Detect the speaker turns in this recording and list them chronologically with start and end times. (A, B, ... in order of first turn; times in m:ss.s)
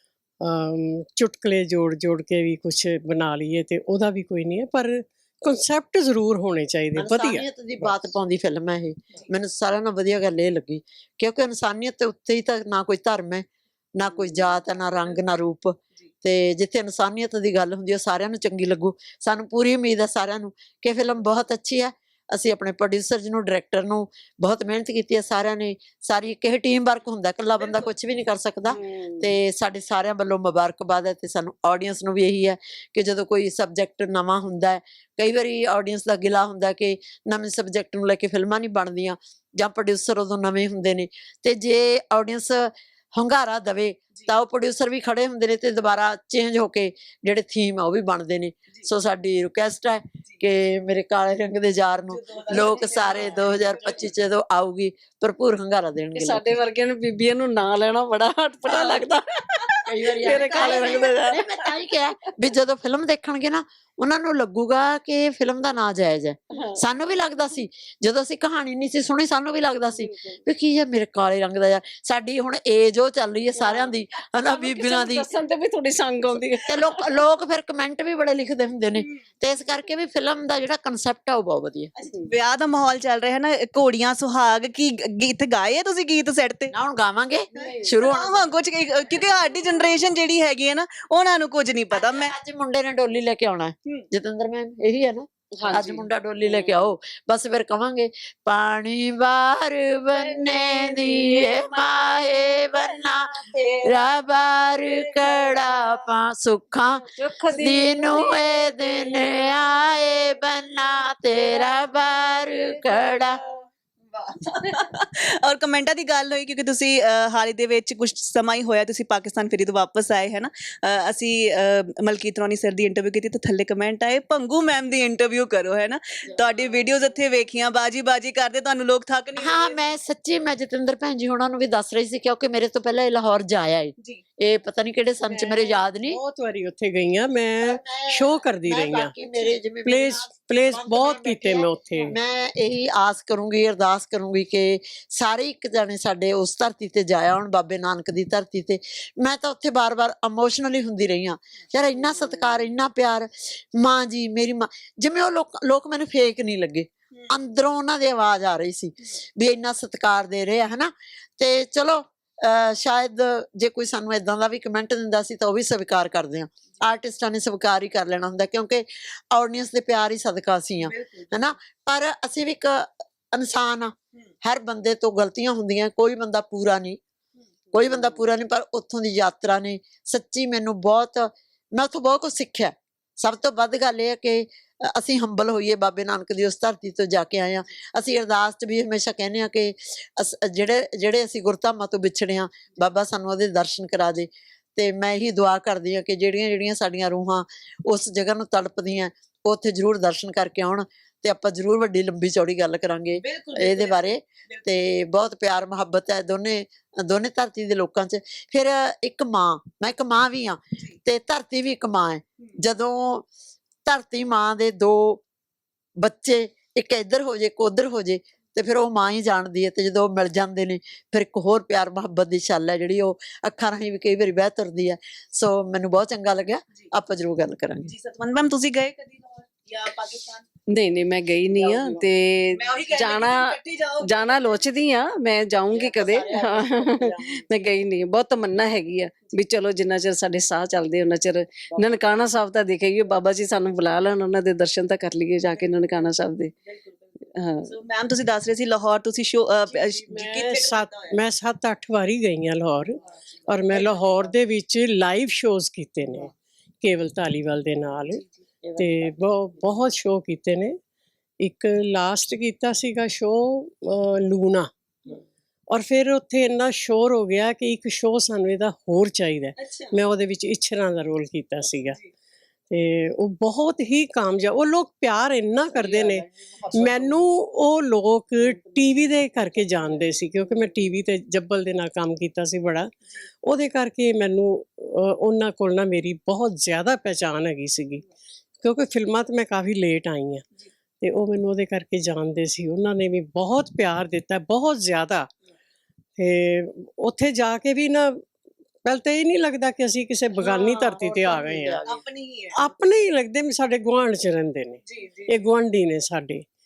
0:00.4-0:08.0 A
0:07.0-0:56.6 B
0:28.7-0:29.3 C
0:52.2-0:54.1 D
0:56.2-1:01.6 C
0:58.7-0:59.0 B
0:59.9-1:15.3 B
1:00.4-1:01.0 D
1:06.6-1:06.8 C
1:09.9-1:10.4 C
1:13.6-1:17.2 C
1:16.5-1:21.9 B
1:22.0-1:26.7 D
1:26.7-1:28.4 B
1:27.5-1:28.0 C
1:27.6-1:32.3 D
1:31.9-1:47.1 B
1:35.6-1:36.8 C
1:40.2-1:41.4 C
1:45.2-1:45.6 D
1:47.2-1:49.3 C
1:47.6-1:53.4 B
1:52.6-1:53.1 C
1:54.2-2:09.8 D
2:09.4-2:16.2 B
2:15.3-2:19.1 A
2:17.6-2:57.0 B
2:19.8-2:22.2 A
2:50.8-2:51.3 D
2:57.7-3:33.3 B
3:23.2-3:24.7 D
3:33.9-3:35.2 B
3:36.0-3:47.9 B
3:47.9-3:50.5 D
3:50.7-4:06.5 C
3:52.6-3:54.6 D
3:55.7-3:56.8 D
4:07.4-4:07.8 C
4:07.7-4:11.2 D
4:09.8-4:18.2 A
4:13.7-4:14.1 D
4:18.8-4:20.8 A
4:21.4-4:24.7 A
4:25.7-4:32.0 A
4:32.7-4:42.9 A
4:43.4-4:48.0 A
4:48.6-4:50.4 A
4:51.0-4:55.3 A
4:56.2-4:58.2 A
4:58.8-5:01.8 A
5:00.4-5:01.0 D
5:01.0-5:01.8 B
5:01.8-5:02.6 D
5:02.5-5:06.4 A
5:04.9-5:05.3 D